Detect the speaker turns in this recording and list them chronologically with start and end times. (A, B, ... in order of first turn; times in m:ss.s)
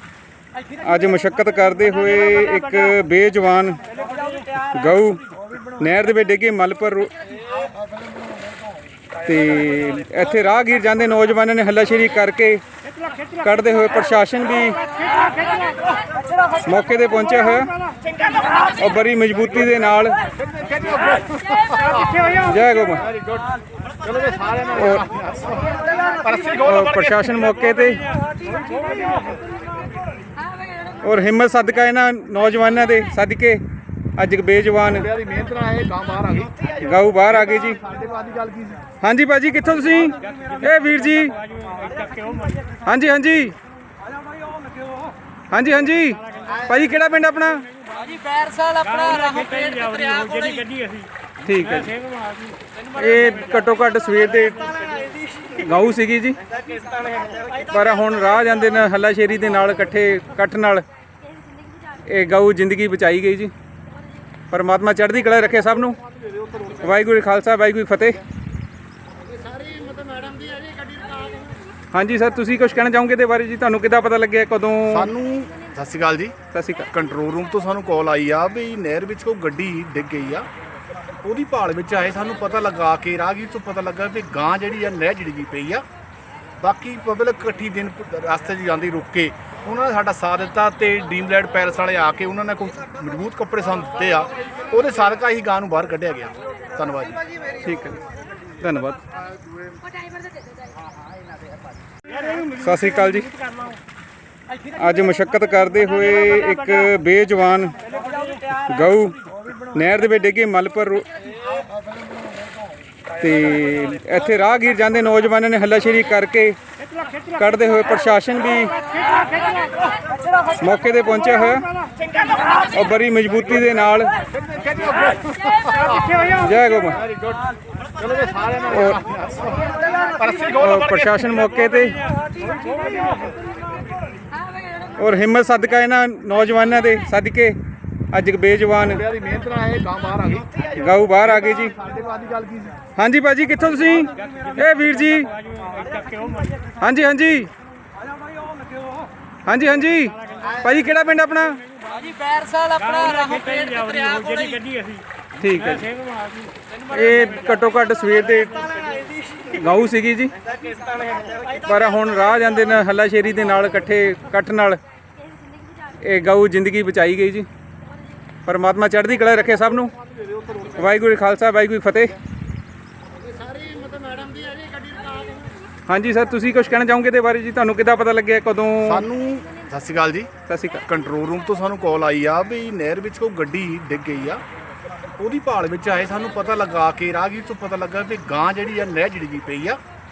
0:00.8-0:03.8 A
0:04.7-0:05.2 A
0:05.8-0:07.1 A
0:09.2-0:12.6 A
0:13.4-0:14.8 A
0:16.6-0:17.7 A
0:18.8-0:20.2 A
0:20.4-0:22.2 B
0:22.3-0:23.1 A
0:24.0-0:26.9 B
0:24.7-0:25.0 A
0:26.6-0:28.0 A
0:28.6-0:29.2 B
0:31.0-0:33.6 A
0:34.2-0:35.1 A
0:34.9-0:36.6 B
0:36.7-0:37.8 A
0:37.3-0:38.8 B
0:39.0-0:41.4 A
0:42.8-0:43.6 A
0:45.5-0:47.7 A
0:48.0-0:50.7 C
0:51.4-0:52.0 A
0:52.9-0:54.7 A
0:55.5-0:56.4 A
0:57.7-1:00.8 A
1:02.0-1:03.5 A
1:04.5-1:06.0 A
1:06.7-1:08.2 A
1:09.4-1:11.4 B
1:11.9-1:15.1 A
1:14.9-1:16.3 B
1:16.5-1:16.9 A
1:16.9-1:20.5 B
1:21.2-1:25.8 B
1:26.6-1:37.2 B
1:37.6-1:38.0 A
1:38.6-1:39.0 A
1:42.6-1:43.3 A
1:44.7-1:47.7 A
1:48.6-1:49.2 A
1:49.7-1:51.1 A
1:53.2-1:56.6 A
1:57.4-1:58.8 A
2:00.6-2:01.7 A
2:02.7-2:04.1 A
2:04.4-2:06.2 B
2:06.4-2:07.0 A
2:08.0-2:11.2 B
2:08.7-2:09.0 A
2:10.6-2:12.0 A
2:15.0-2:17.6 A
2:18.1-2:19.0 A
2:18.9-2:20.5 B
2:20.7-2:21.7 A
2:21.2-2:22.8 B
2:23.0-2:25.3 A
2:26.8-2:27.5 A
2:29.4-2:31.6 A
2:31.9-2:34.7 C
2:35.4-2:35.9 A
2:36.9-2:38.7 A
2:39.5-2:40.3 A
2:41.6-2:44.8 A
2:46.0-2:47.5 A
2:48.4-2:49.9 A
2:50.7-2:52.2 A
2:53.3-2:55.1 B
2:55.9-2:59.0 A
2:58.8-3:00.3 B
3:00.5-3:00.8 A
3:00.9-3:04.4 B
3:05.2-3:09.8 B